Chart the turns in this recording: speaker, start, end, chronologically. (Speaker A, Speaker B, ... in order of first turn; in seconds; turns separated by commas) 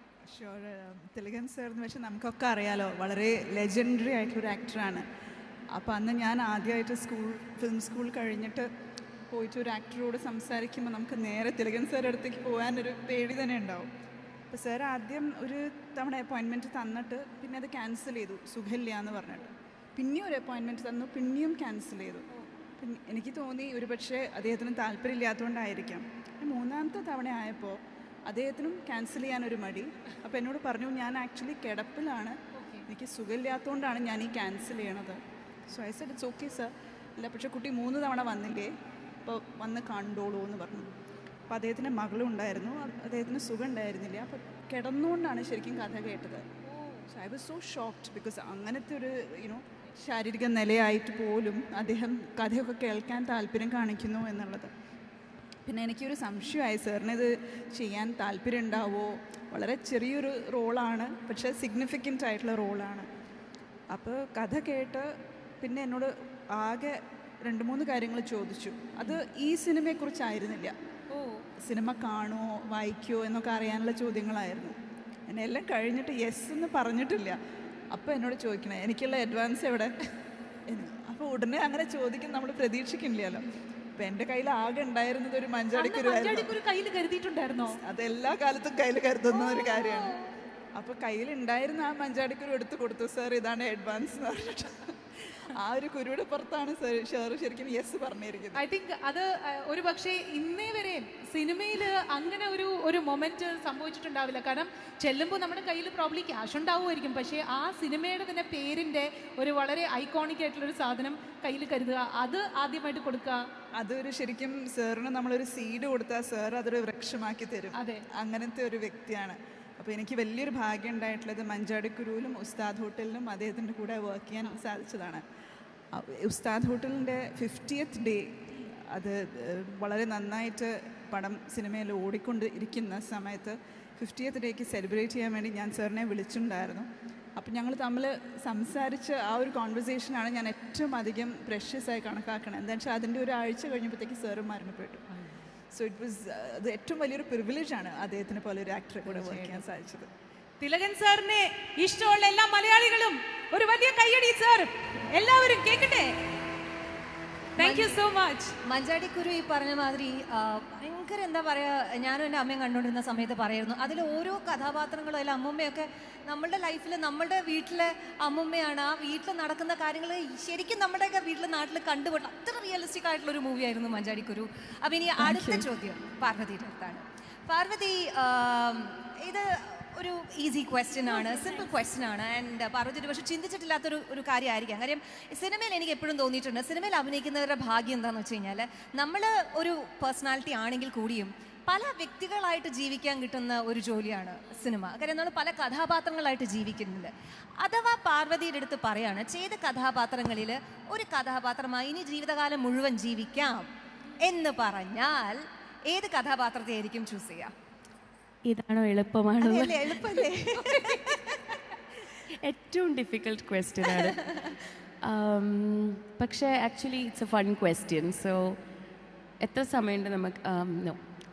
Speaker A: 0.2-5.0, Speaker A: 5.7-8.7, Speaker A: 9.3-13.9, Speaker A: 14.5-22.2, Speaker A: 22.8-40.9, Speaker B: 32.5-32.8, Speaker A: 41.5-46.4, Speaker B: 46.7-47.0, Speaker A: 47.1-54.7, Speaker A: 55.6-63.1, Speaker A: 63.9-70.7, Speaker B: 71.1-71.4, Speaker A: 71.6-74.8, Speaker A: 75.3-77.4, Speaker A: 77.9-79.9, Speaker A: 80.7-83.4, Speaker A: 84.0-86.5, Speaker B: 85.7-87.8, Speaker A: 87.8-90.1, Speaker C: 89.3-90.2, Speaker A: 90.7-94.9, Speaker A: 95.5-98.6, Speaker B: 98.5-113.5, Speaker A: 113.8-125.2, Speaker B: 117.8-118.0, Speaker A: 125.9-145.0, Speaker A: 145.7-150.1, Speaker D: 149.1-149.4, Speaker B: 150.6-156.4, Speaker B: 157.6-158.5, Speaker C: 157.6-158.0, Speaker C: 158.7-203.7, Speaker A: 175.2-175.7, Speaker D: 181.1-181.7, Speaker C: 204.2-207.5, Speaker D: 208.5-210.3, Speaker C: 209.4-211.6, Speaker D: 212.4-218.6, Speaker D: 219.4-221.0